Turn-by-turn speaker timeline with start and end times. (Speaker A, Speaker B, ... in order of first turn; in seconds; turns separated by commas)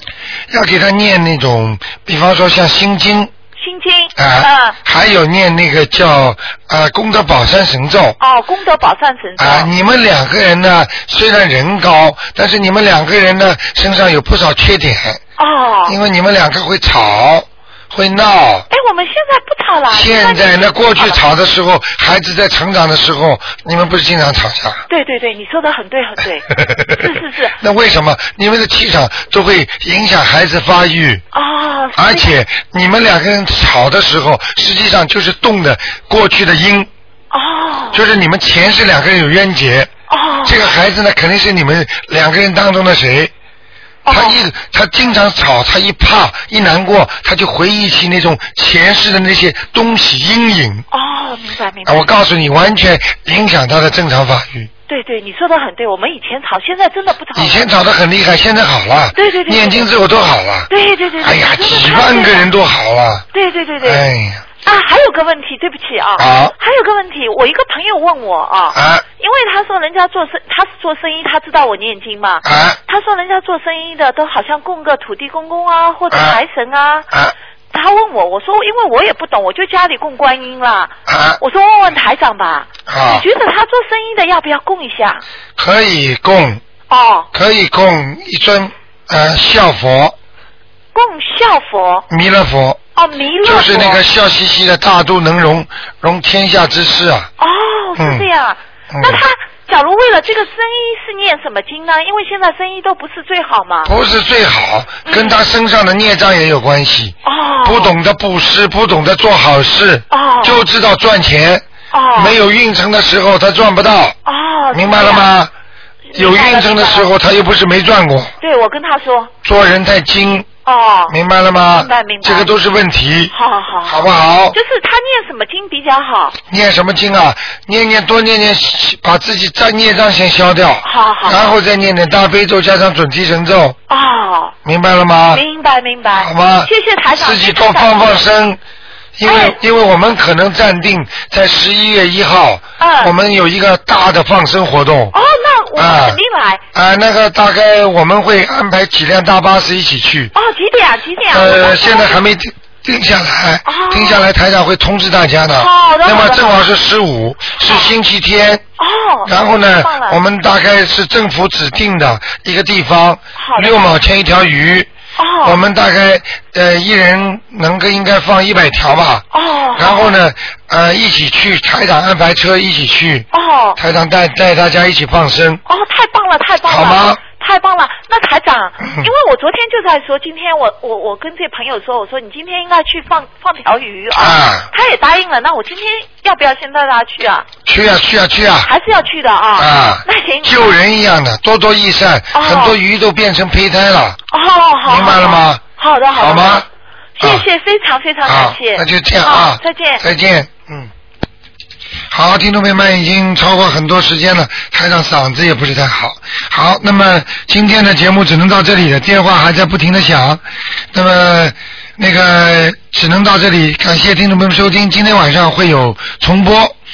Speaker A: 0.5-3.3, Speaker B: 3.6-4.8, Speaker A: 4.2-8.2, Speaker B: 8.2-9.7, Speaker A: 9.4-15.2, Speaker B: 15.4-16.0, Speaker A: 15.8-18.7, Speaker B: 18.7-21.2, Speaker A: 19.9-24.9, Speaker B: 24.9-27.6, Speaker A: 26.6-27.0, Speaker A: 27.6-31.2, Speaker B: 31.3-32.4, Speaker A: 31.9-36.9, Speaker B: 37.3-38.0, Speaker A: 37.9-39.9, Speaker B: 40.1-40.7, Speaker A: 40.4-43.3, Speaker B: 44.0-44.4, Speaker A: 44.1-50.9, Speaker B: 50.9-52.1, Speaker A: 51.9-54.7, Speaker B: 54.9-57.7, Speaker A: 57.3-63.2, Speaker B: 59.1-59.9, Speaker B: 60.7-62.5, Speaker B: 63.3-64.0, Speaker A: 63.8-64.5, Speaker B: 64.6-77.1, Speaker A: 66.2-66.5, Speaker A: 68.7-69.0, Speaker A: 72.4-72.8, Speaker A: 76.1-76.4, Speaker B: 77.7-85.2, Speaker A: 81.1-81.4, Speaker A: 82.9-83.2, Speaker A: 85.6-86.6, Speaker B: 86.9-87.3, Speaker A: 87.3-90.2, Speaker B: 90.9-92.0, Speaker A: 92.1-92.8, Speaker B: 92.9-94.0, Speaker A: 93.4-97.3, Speaker B: 97.4-103.9, Speaker A: 98.0-98.3, Speaker A: 98.9-99.2, Speaker A: 103.8-114.2, Speaker B: 105.0-105.4, Speaker B: 107.2-107.9, Speaker B: 110.1-110.7, Speaker B: 111.9-112.4, Speaker B: 114.2-115.3, Speaker A: 114.7-115.5, Speaker B: 116.1-117.1, Speaker A: 116.1-118.3, Speaker B: 118.4-119.3, Speaker A: 119.4-120.5, Speaker B: 120.6-121.2, Speaker A: 121.1-123.3, Speaker B: 121.7-122.5, Speaker B: 123.3-126.4, Speaker A: 123.8-124.5, Speaker A: 126.5-133.8, Speaker B: 130.8-131.6, Speaker B: 133.9-134.5, Speaker A: 134.6-135.4, Speaker B: 135.3-138.2, Speaker A: 136.2-138.6, Speaker A: 139.2-145.1, Speaker B: 139.2-139.6, Speaker B: 142.8-143.1, Speaker B: 145.1-146.6, Speaker A: 145.8-146.2, Speaker A: 146.7-150.3, Speaker B: 150.3-152.2, Speaker A: 151.3-158.6, Speaker B: 153.6-154.2, Speaker B: 155.5-156.6, Speaker B: 157.6-157.9, Speaker B: 158.8-160.2, Speaker A: 159.2-164.9, Speaker B: 163.4-163.8, Speaker B: 165.2-165.6, Speaker A: 165.4-175.6, Speaker B: 169.3-170.2, Speaker B: 173.3-173.8, Speaker B: 175.7-187.5, Speaker A: 176.7-177.2, Speaker A: 178.8-179.1, Speaker A: 184.1-184.7, Speaker A: 187.7-188.7, Speaker B: 188.6-190.6, Speaker A: 189.6-194.2, Speaker B: 192.3-192.8, Speaker B: 194.3-196.7, Speaker A: 194.8-196.7, Speaker B: 197.2-200.0, Speaker A: 197.2-197.5, Speaker A: 198.2-200.9, Speaker A: 202.1-216.7